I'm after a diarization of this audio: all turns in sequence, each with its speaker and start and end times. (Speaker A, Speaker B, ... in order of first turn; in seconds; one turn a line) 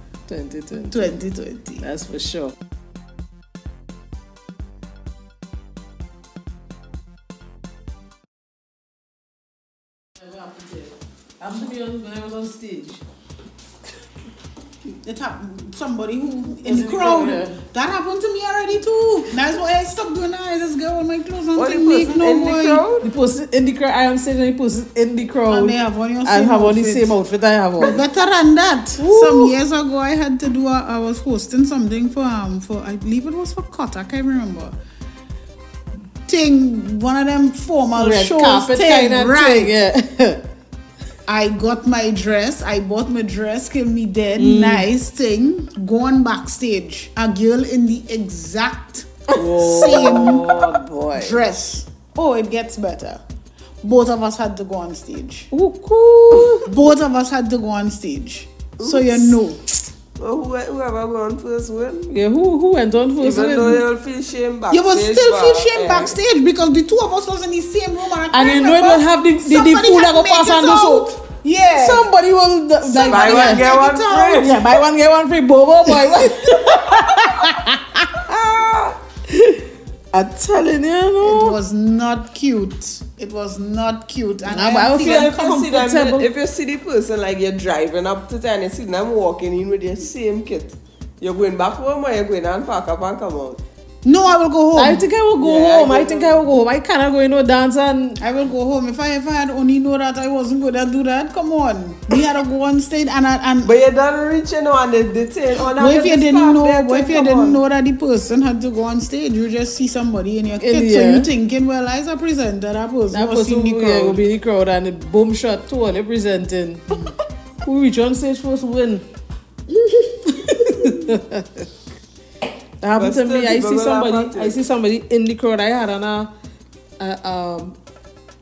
Speaker A: 0.3-1.1
Speaker B: 0.9-1.9
Speaker A: 1.8-2.5
Speaker A: 10.2-13.0
Speaker B: 14.9-22.8
Speaker A: 16.6-17.6
Speaker C: 21.6-23.1
Speaker A: 23.0-28.0
Speaker B: 25.5-27.1
Speaker B: 27.8-34.7
Speaker A: 29.0-29.5
Speaker B: 36.3-39.7
Speaker A: 38.0-40.5
Speaker B: 41.3-53.2
Speaker A: 44.4-44.9
Speaker A: 49.3-51.4
Speaker B: 53.8-55.5
Speaker A: 55.5-56.7
Speaker B: 56.6-59.6
Speaker C: 58.8-59.4
Speaker C: 60.2-62.1
Speaker A: 62.1-63.8
Speaker C: 63.2-66.2
Speaker B: 64.7-72.1
Speaker A: 68.3-71.1
Speaker A: 71.7-73.7
Speaker B: 72.8-74.5
Speaker C: 73.1-74.6
Speaker A: 74.3-78.4
Speaker B: 76.7-77.6
Speaker C: 78.3-78.9
Speaker A: 79.3-81.6
Speaker B: 81.2-85.3
Speaker A: 84.5-86.3
Speaker C: 85.0-93.6
Speaker B: 94.0-95.0
Speaker A: 94.7-98.2
Speaker C: 95.4-96.4
Speaker B: 98.2-103.7
Speaker C: 103.6-107.6
Speaker B: 105.8-114.2
Speaker A: 110.6-111.3
Speaker A: 113.1-117.0
Speaker A: 117.6-119.0
Speaker A: 119.7-121.7
Speaker A: 122.8-126.3
Speaker C: 123.0-124.6
Speaker A: 127.0-127.8